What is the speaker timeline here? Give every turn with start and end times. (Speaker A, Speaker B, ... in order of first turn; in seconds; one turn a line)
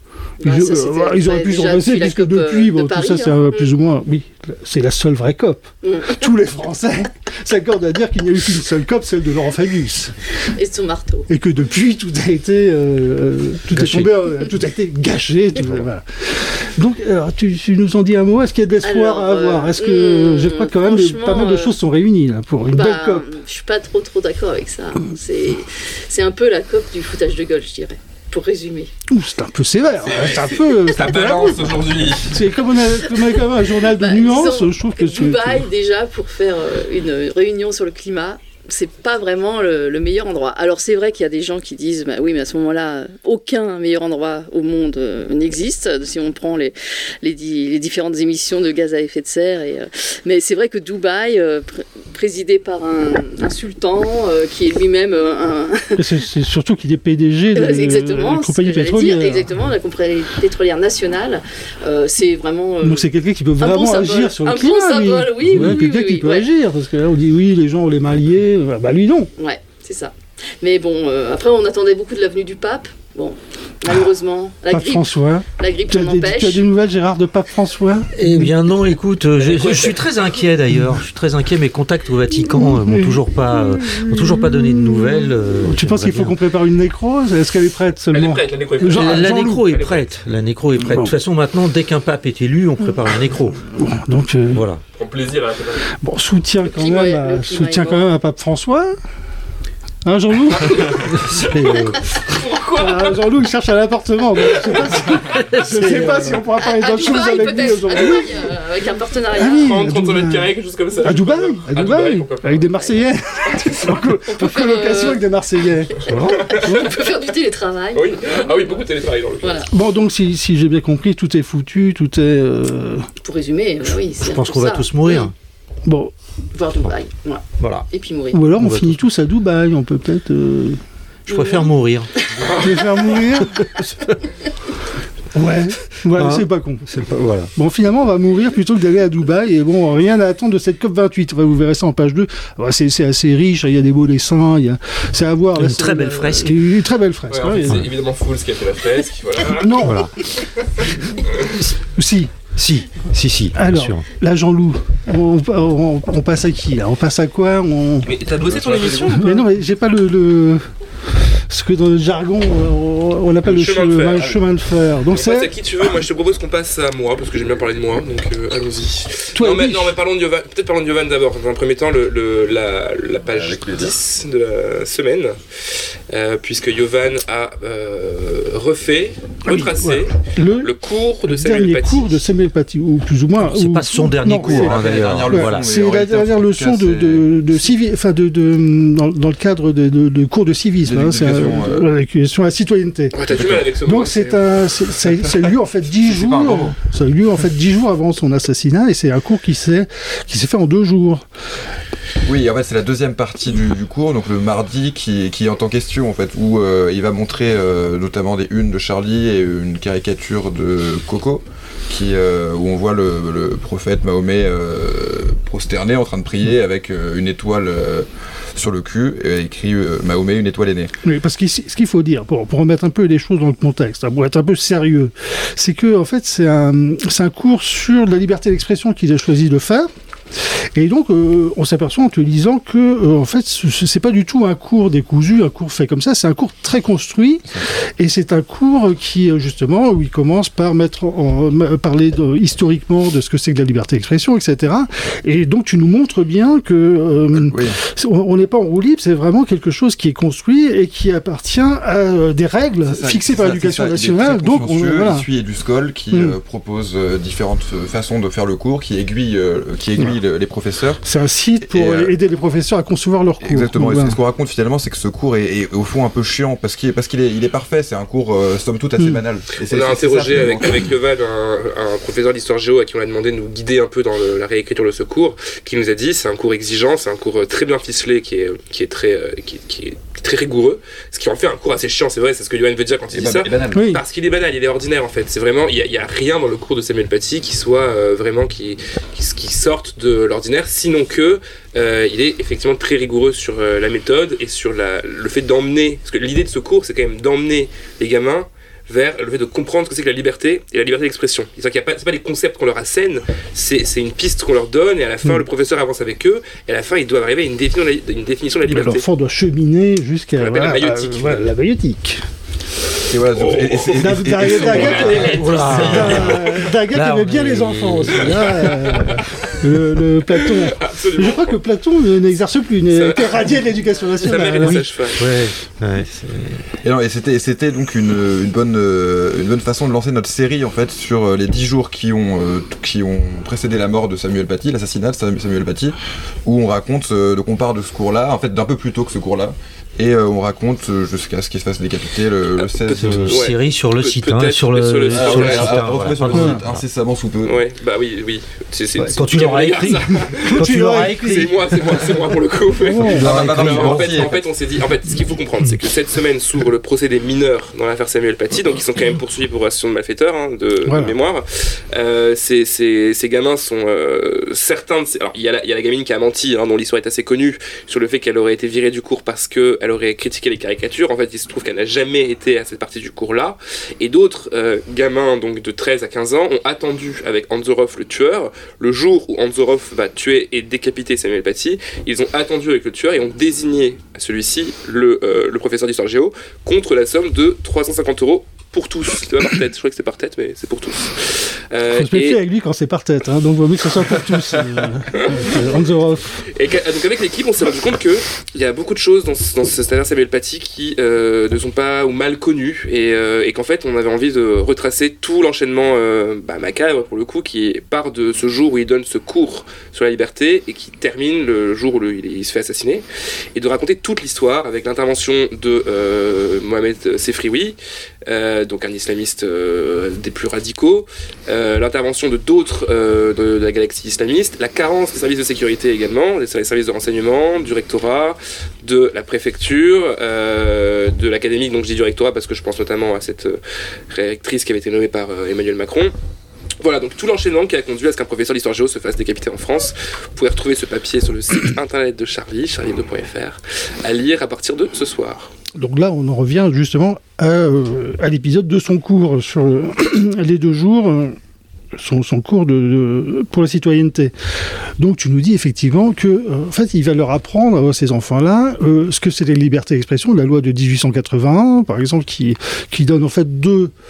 Speaker A: 0.4-3.7
Speaker B: 0.4-10.2
Speaker A: 5.8-6.2
Speaker A: 10.4-11.3
Speaker B: 11.3-23.3
Speaker C: 13.7-14.1
Speaker A: 18.8-21.7
Speaker A: 22.7-28.9
Speaker B: 29.1-35.7
Speaker D: 30.1-32.5
Speaker A: 33.2-56.0
Speaker B: 56.0-59.5
Speaker A: 57.5-63.1
Speaker B: 62.8-69.3
Speaker A: 63.6-66.5
Speaker C: 65.5-65.8
Speaker A: 69.4-76.7
Speaker B: 74.7-78.5
Speaker C: 78.1-86.4
Speaker D: 79.4-80.0
Speaker B: 82.5-83.2
Speaker B: 83.7-89.7
Speaker D: 88.1-90.1
Speaker C: 88.9-93.6
Speaker B: 93.8-94.6
Speaker C: 94.5-94.8
Speaker D: 95.0-95.9
Speaker B: 95.9-98.9
Speaker A: 96.7-98.0
Speaker B: 100.0-101.2
Speaker C: 101.1-102.0
Speaker D: 102.1-103.2
Speaker B: 102.7-108.4
Speaker D: 104.5-105.2
Speaker C: 105.5-106.4
Speaker A: 106.5-109.8
Speaker B: 109.3-117.0
Speaker D: 109.4-112.6
Speaker A: 114.3-115.2
Speaker A: 116.0-118.3
Speaker D: 116.2-117.0
Speaker D: 117.9-119.7
Speaker A: 119.4-119.7
Speaker B: 119.7-123.1
Speaker A: 123.2-125.3
Speaker C: 124.2-125.3
Speaker B: 125.8-126.1
Speaker A: 126.5-128.4
Speaker C: 127.6-127.8
Speaker B: 128.3-130.8
Speaker C: 128.5-129.0
Speaker A: 131.3-131.7
Speaker C: 131.3-132.1
Speaker A: 132.3-132.6
Speaker B: 132.5-133.6
Speaker B: 135.3-136.8
Speaker C: 136.1-137.5
Speaker B: 137.5-147.9
Speaker C: 145.6-146.6
Speaker D: 147.3-150.0
Speaker B: 149.5-150.0
Speaker C: 149.8-150.1
Speaker D: 150.8-151.5
Speaker B: 151.9-152.3
Speaker C: 152.5-154.1
Speaker B: 153.5-158.1
Speaker D: 158.0-159.4
Speaker E: 158.4-159.2
Speaker B: 159.1-160.6
Speaker B: 161.3-165.5
Speaker D: 163.4-164.4
Speaker D: 165.1-182.2
Speaker B: 169.3-169.9
Speaker E: 173.3-173.9
Speaker B: 179.4-180.7
Speaker B: 181.2-193.2
Speaker C: 183.4-185.7
Speaker E: 184.4-187.6
Speaker E: 190.8-191.9
Speaker D: 193.1-194.5
Speaker E: 193.3-193.7
Speaker B: 193.8-201.3
Speaker E: 196.0-196.8
Speaker E: 202.2-220.9
Speaker B: 221.0-255.2
Speaker E: 247.3-247.8
Speaker E: 252.8-261.0
Speaker B: 256.1-256.4
Speaker B: 261.0-264.2
Speaker E: 261.6-262.1
Speaker E: 263.4-270.9
Speaker B: 269.0-269.2
Speaker D: 269.6-309.1
Speaker E: 283.1-283.9
Speaker B: 283.7-284.0
Speaker B: 308.6-312.2
Speaker D: 310.4-311.5
Speaker E: 313.1-316.2
Speaker D: 313.3-316.5
Speaker B: 313.9-324.9
Speaker C: 315.2-318.5
Speaker D: 318.2-319.6
Speaker D: 320.4-321.6
Speaker D: 322.9-323.5
Speaker D: 324.1-325.2
Speaker C: 324.6-326.8
Speaker E: 326.8-343.4
Speaker D: 342.6-345.8
Speaker C: 342.9-346.8
Speaker E: 345.1-347.6
Speaker B: 346.3-346.6
Speaker D: 347.4-392.4
Speaker C: 348.9-352.4
Speaker B: 350.5-351.2
Speaker B: 352.8-353.3
Speaker C: 352.9-354.4
Speaker E: 353.0-354.4
Speaker B: 360.8-361.1
Speaker B: 391.9-396.4
Speaker D: 395.1-395.5
Speaker D: 396.5-433.6
Speaker D: 434.1-436.1
Speaker D: 436.8-445.5
Speaker B: 445.7-451.4
Speaker B: 451.9-454.3
Speaker B: 455.0-463.9